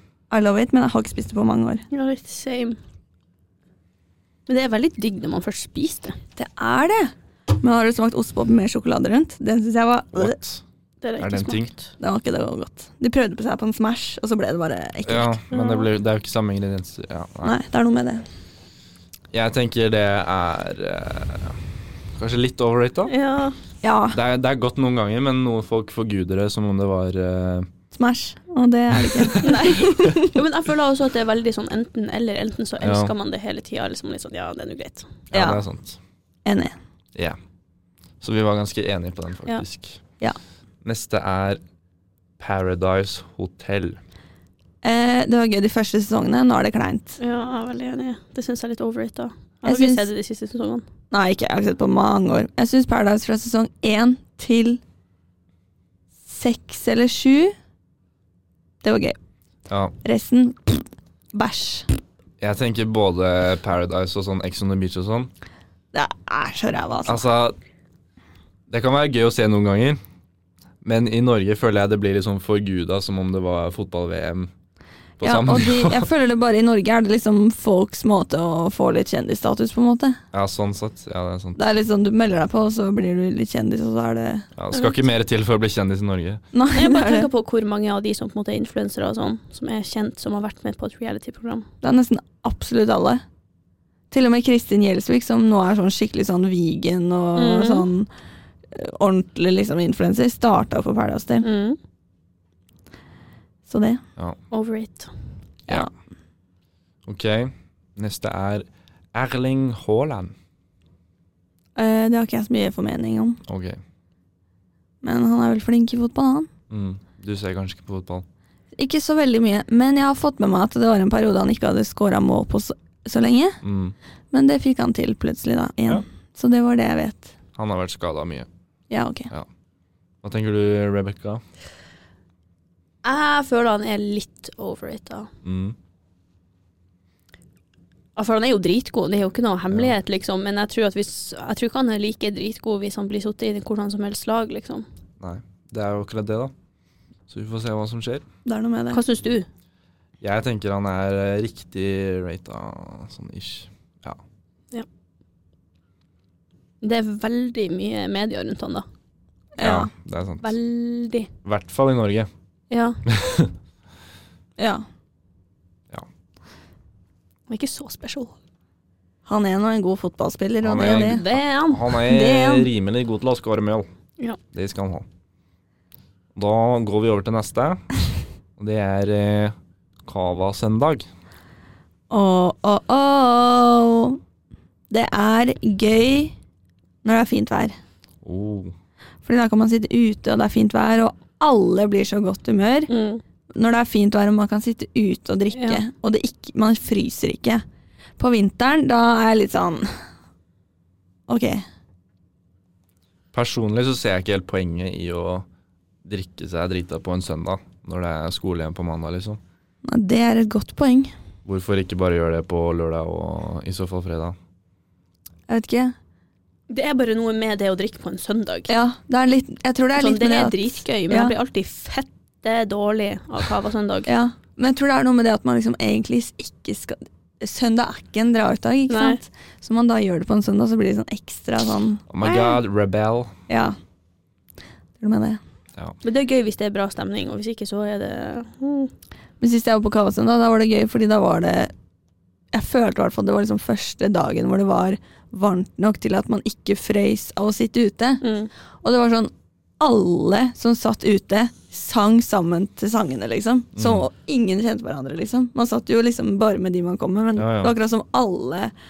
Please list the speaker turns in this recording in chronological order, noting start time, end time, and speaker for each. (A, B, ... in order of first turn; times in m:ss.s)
0:00.3-0:01.9 A
0:01.9-0:02.8 B
0:04.5-0:06.2 B
0:06.4-0:10.4 A
0:10.1-0:10.6 C
0:11.0-0:11.9 B
0:11.2-0:11.7 C
0:12.0-0:15.4 A
0:15.0-0:17.5 C
0:15.5-0:15.9 B
0:17.4-0:18.2 A
0:19.3-0:21.6 C
0:22.2-0:23.1 C
0:23.1-0:23.6 B
0:23.8-0:24.2 A
0:24.1-0:27.7 C
0:27.9-0:30.4 A
0:29.1-0:29.5 C
0:29.4-0:35.1 B
0:32.8-0:33.1 C
0:35.3-0:36.0 C
0:35.3-0:35.6 A
0:36.4-0:36.8 A
0:38.2-0:40.0 C
0:40.8-0:41.6 C
0:42.4-0:44.0 C
0:44.8-0:47.2 A
0:47.2-0:50.8 B
0:49.6-0:50.1 A
0:51.1-0:54.8 A
0:56.2-0:57.5 A
0:58.8-0:59.2 A
0:59.7-0:59.9 C
1:00.0-1:01.9 A
1:02.4-1:05.3 C
1:05.9-1:07.2 A
1:07.0-1:07.6 C
1:08.7-1:10.0 C
1:10.8-1:14.5 C
1:15.2-1:16.1 C
1:15.2-1:20.2 A
1:20.3-1:21.6 C
1:21.6-1:24.4 A
1:24.6-1:26.4 C
1:26.5-1:27.3 A
1:26.7-1:31.7 B
1:31.8-1:33.2 A
1:34.1-1:38.1 A
1:37.3-1:37.9 B
1:38.7-1:41.4 A
1:41.4-1:41.8 B
1:43.7-1:44.0 A
1:44.5-1:45.1 B
1:47.0-1:50.3 C
1:51.8-1:53.4 A
1:53.5-1:53.8 C
1:55.0-1:56.5 A
1:56.7-1:58.2 C
1:58.8-2:03.6 A
2:03.6-2:03.9 C
2:04.3-2:07.3 A
2:07.6-2:08.5 C
2:08.9-2:09.3 A
2:10.2-2:11.4 C
2:13.0-2:15.3 B
2:15.4-2:15.7 C
2:18.2-2:24.8 B
2:25.2-2:26.5 C
2:27.3-2:28.2 C
2:28.4-2:29.0 A
2:28.9-2:29.5 B
2:30.2-2:34.2 C
2:36.8-2:38.9 B
2:39.6-2:39.9 A
2:39.6-2:40.5 C
2:40.4-2:41.3 B
2:41.4-2:42.3 C
2:42.7-2:43.0 B
2:43.1-2:43.5 C
2:44.6-2:44.8 A
2:47.5-2:48.4 B
2:49.2-2:51.2 A
2:50.6-2:53.9 C
2:50.8-2:52.0 B
2:52.0-2:52.7 A
2:54.5-2:55.0 C
2:56.3-2:58.0 C
2:58.6-2:59.5 C
3:00.0-3:01.0 C
3:02.1-3:04.2 A
3:04.9-3:06.3 A
3:07.0-3:07.7 A
3:08.2-3:08.7 C
3:09.2-3:12.9 A
3:12.9-3:13.2 B
3:13.5-3:17.6 A
3:15.5-3:15.8 B
3:18.2-3:19.9 A
3:21.3-3:21.6 A
3:23.3-3:25.4 C
3:26.0-3:29.4 C
3:29.8-3:31.1 A
3:31.4-3:34.4 C
3:35.5-3:35.9 A
3:36.7-3:38.7 B
3:38.7-3:41.3 A
3:40.0-3:44.1 B
3:44.1-3:52.6 A
3:48.9-3:49.2 B
3:52.1-3:53.3 C
3:53.5-3:53.8 A
3:55.0-3:55.4 A
3:56.0-3:58.9 B
3:59.4-4:01.7 A
4:02.5-4:08.2 A
4:08.2-4:08.5 B
4:08.8-4:18.7 A
4:13.8-4:14.0 C
4:17.4-4:17.7 C